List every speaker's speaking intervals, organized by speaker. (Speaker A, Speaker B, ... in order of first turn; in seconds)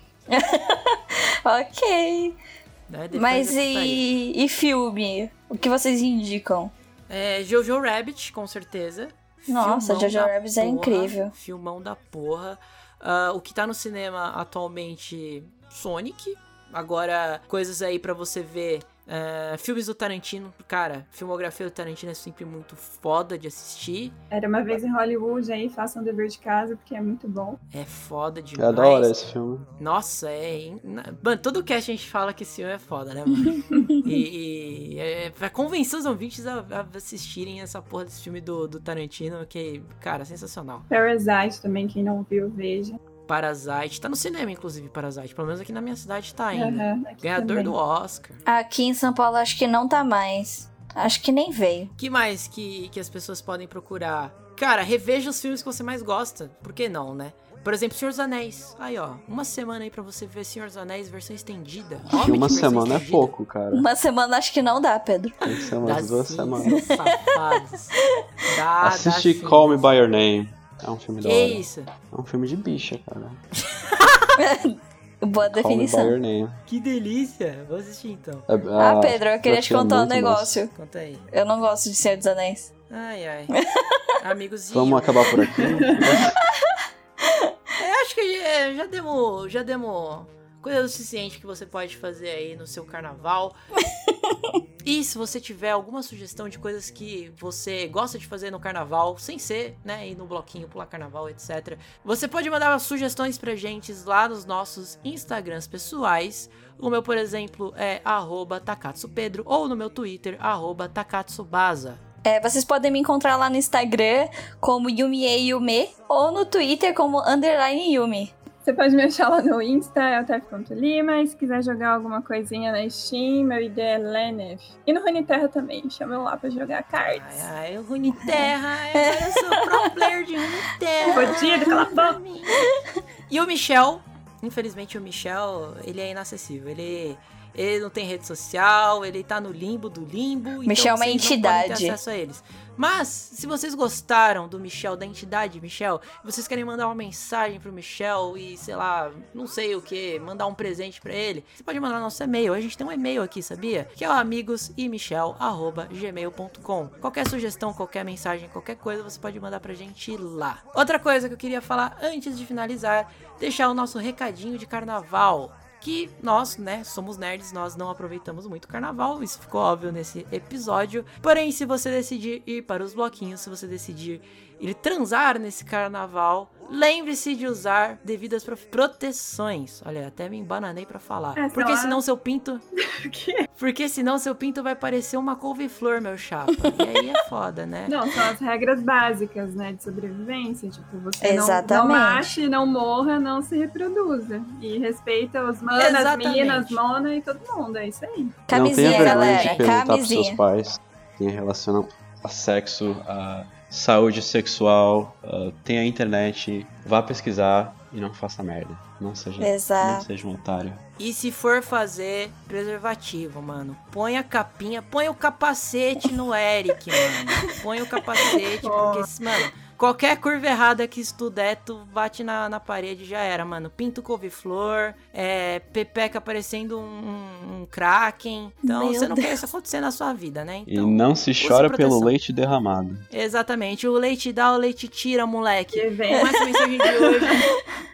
Speaker A: 0.3-2.4, 3.1-6.7, 9.5-11.3, 48.5-51.9, 63.7-65.4, 66.6-67.1, 74.4-76.2, 78.8-80.7, 81.3-82.7, 83.5-84.0, 87.2-87.5, 94.1-94.6, 112.2-118.3, 128.1-129.6, 131.0-131.3, 140.6-142.0, 191.2-192.4, 198.5-200.4, 209.4-210.1, 228.6-229.4
Speaker B: 2.9-4.1, 7.1-24.1, 27.7-29.1, 29.8-40.8, 43.3-48.4, 52.0-63.3, 65.5-67.9, 68.5-69.9, 71.2-71.9, 76.7-78.5, 80.7-81.2, 82.9-83.5, 84.2-85.7, 87.8-93.6, 94.8-112.0, 127.0-132.6, 133.3-182.6, 183.6-187.9, 195.8-196.8, 198.8-199.7, 211.0-232.1, 233.1-237.5
Speaker C: 24.3-27.6, 40.9-43.0, 46.5-47.8, 85.7-85.9, 118.6-127.5, 131.1-132.2, 181.3-182.0, 182.9-183.4, 187.9-198.3, 218.6-219.1, 235.7-236.4
Speaker D: 28.6-29.7, 62.1-63.8, 65.4-66.8, 68.8-73.4, 75.4-76.6, 78.5-80.6, 84.7-86.3, 198.5-210.8, 230.7-233.1